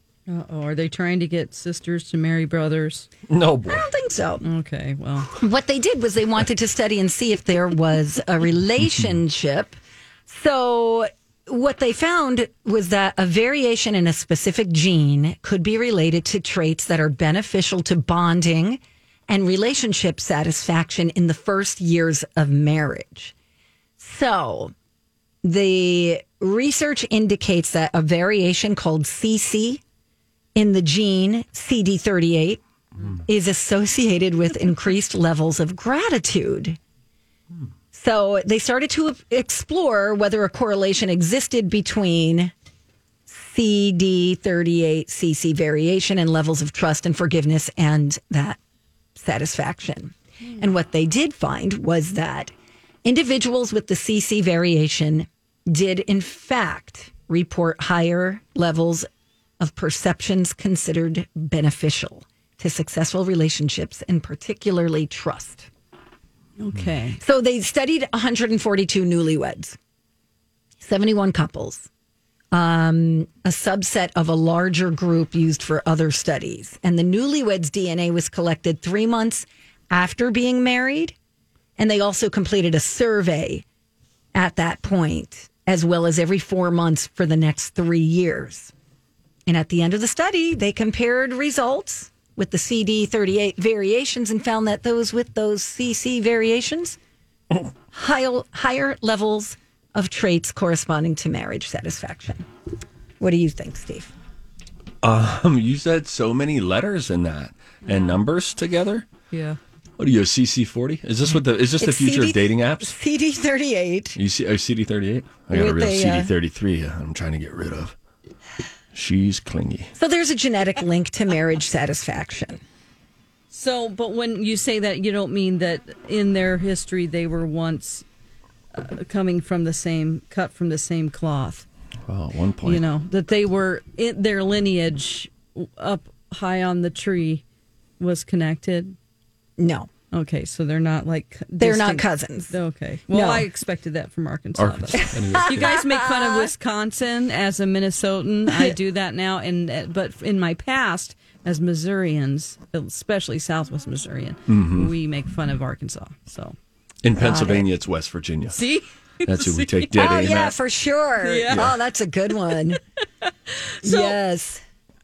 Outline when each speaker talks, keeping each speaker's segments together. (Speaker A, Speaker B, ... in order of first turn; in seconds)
Speaker A: 0.3-3.1, 4.4-5.3, 66.6-67.2, 107.9-108.2, 109.3-109.6, 123.5-128.0, 128.7-131.7, 132.6-137.4, 138.0-138.9, 140.1-156.6, 158.5-160.0, 161.2-161.6, 163.2-164.2
Speaker B: 3.3-3.9, 105.0-109.0, 110.0-112.9, 114.2-117.9, 118.9-119.9, 132.1-132.8, 144.6-145.7, 154.5-154.9, 157.0-158.6, 159.2-160.6, 161.5-161.7
Speaker C: 3.7-4.5, 5.3-23.3, 24.0-24.7, 25.4-29.8, 30.5-32.6, 33.2-36.8, 37.9-42.5, 43.3-48.6, 49.1-52.5, 53.0-59.1, 59.6-65.7, 67.2-69.8, 70.8-71.9, 72.5-81.1, 81.8-83.6, 84.3-88.7, 89.5-97.0, 97.9-102.5, 103.2-104.1, 111.8-114.2, 115.5-116.3, 120.0-122.6, 139.6-139.9, 141.6-142.5, 143.1-143.5, 144.9-146.5, 157.2-157.7, 159.9-162.8, 163.8-164.6